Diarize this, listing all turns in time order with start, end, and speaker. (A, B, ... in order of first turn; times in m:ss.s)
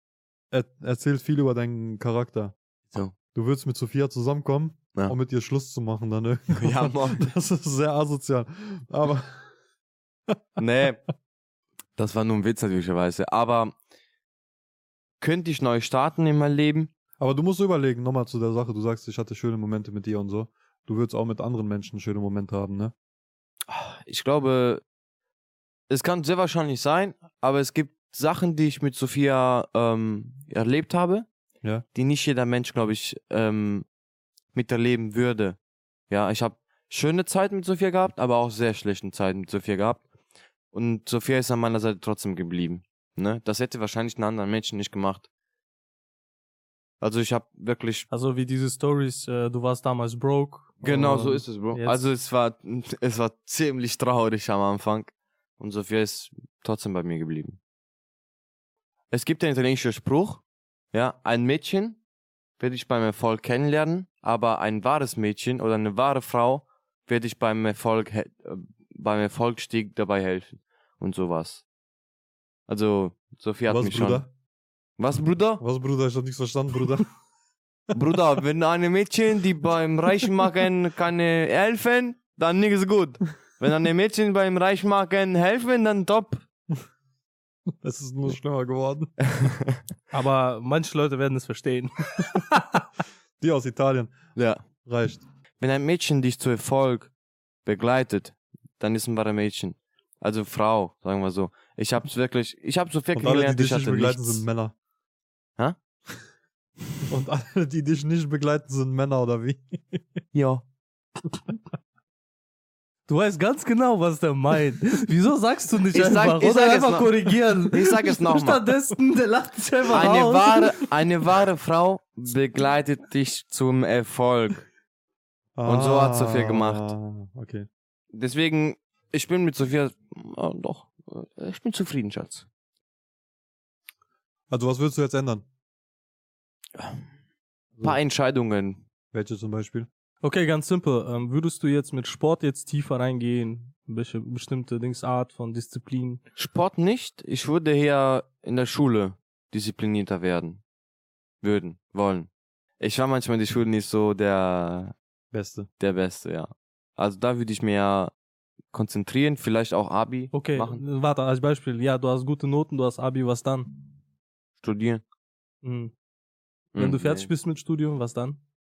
0:00.5-0:02.6 A
0:03.3-0:09.5 A
0:06.5-0:07.3 B
0:10.6-0:11.0 B
0:12.0-0:13.7 B
0:15.2-0:16.9 B
0:17.2-0:22.9 A
0:23.7-0:24.8 B
0:25.9-0:31.3 B
0:31.9-0:33.8 B
0:34.5-0:35.6 B
0:36.1-0:40.0 B
0:40.7-0:45.3 B
0:47.0-0:48.0 B
0:48.1-0:52.0 C
0:50.8-0:57.6 B
0:59.1-1:00.4 B
1:00.9-1:02.0 B
1:02.6-1:11.6 B
1:12.7-1:14.2 B
1:13.7-1:14.3 A
1:15.0-1:15.6 B
1:15.6-1:17.1 A
1:17.9-1:26.4 B
1:27.8-1:29.2 A
1:29.2-1:29.8 B
1:30.1-1:32.8 C
1:33.4-1:35.2 A
1:34.4-1:34.6 B
1:35.6-1:37.1 B
1:37.6-1:44.4 B
1:43.1-1:44.7 A
1:47.0-1:50.0 A
1:50.3-1:50.6 B
1:53.1-2:00.8 C
1:55.9-1:58.6 B
1:59.9-2:04.6 B
2:05.6-2:07.7 A
2:05.6-2:06.9 B
2:08.1-2:12.4 B
2:14.5-2:15.4 A
2:16.8-2:17.0 B
2:17.8-2:18.8 B
2:19.1-2:19.9 A
2:20.2-2:26.2 C
2:26.4-2:30.6 B
2:31.4-2:32.3 B
2:32.8-2:34.9 B
2:35.3-2:35.7 A
2:35.8-2:38.1 B
2:38.7-2:40.8 B
2:40.3-2:43.7 C
2:44.6-2:45.0 B
2:45.6-2:45.9 C
2:46.7-2:47.3 B
2:46.8-2:48.4 C